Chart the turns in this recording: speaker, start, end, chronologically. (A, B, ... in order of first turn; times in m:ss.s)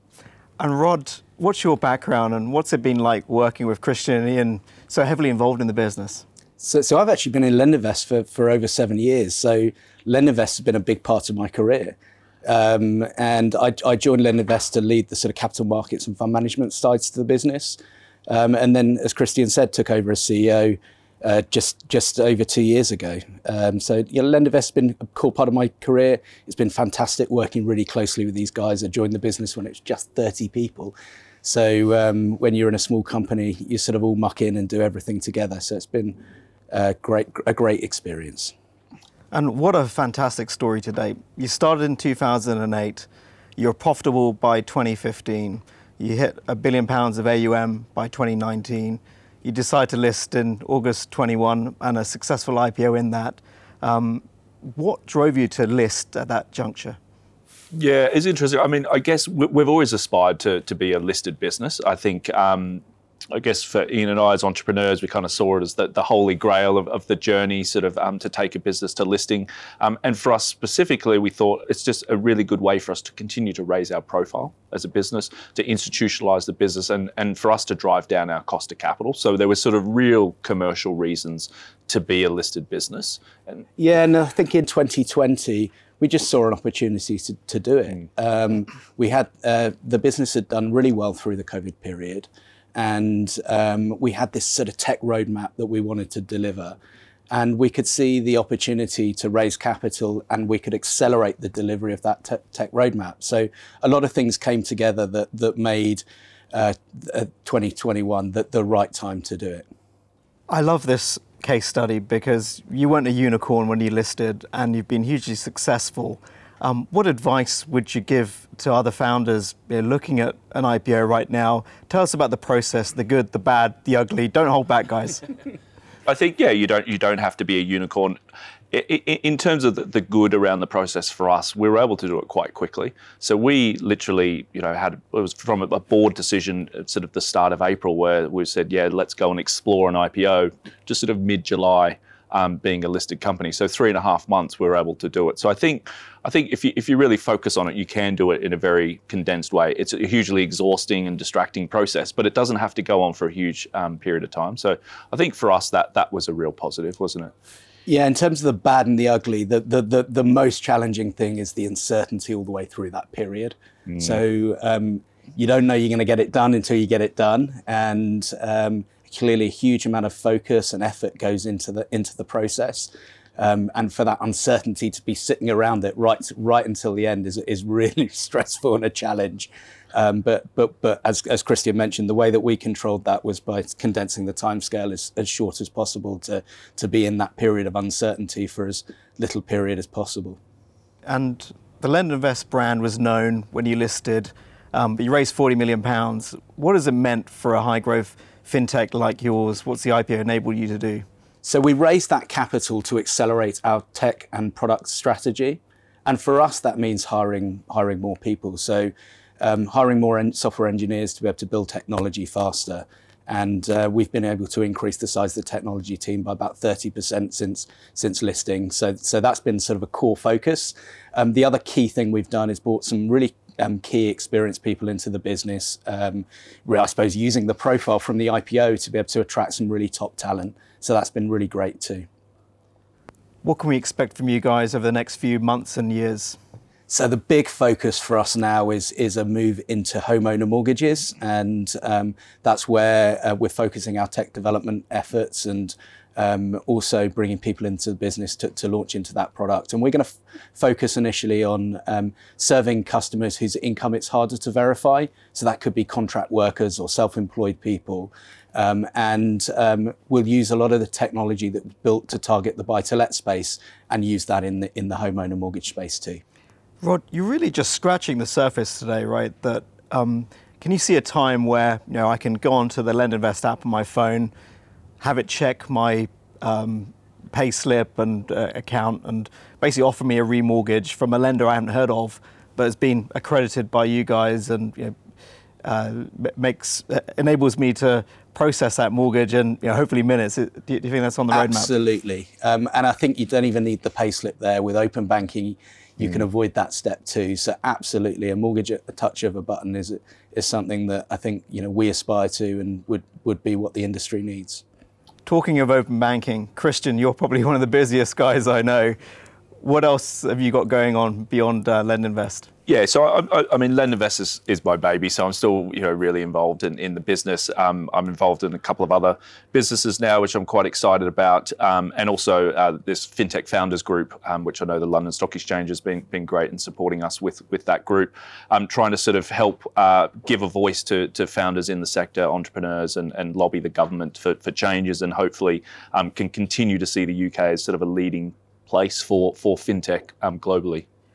0:00.6-0:06.2 A
0:06.6-0:36.2 B
0:36.7-0:38.5 B
0:39.3-0:57.0 A
0:57.7-1:23.6 C
1:23.8-1:36.8 B
1:37.3-1:49.7 B
1:50.5-2:05.2 A
2:06.1-2:08.2 C
2:08.7-2:37.3 C
2:37.9-3:10.4 B
2:43.9-2:44.2 C
3:11.1-3:21.0 A
3:21.4-3:52.1 B
3:53.4-3:56.4 A
3:56.9-4:26.2 B
4:26.8-4:34.3 A
4:35.0-4:44.9 A
4:45.6-4:51.7 A
4:51.3-5:04.6 B
5:05.2-5:09.0 A
5:09.6-5:12.5 A
5:12.7-5:40.8 C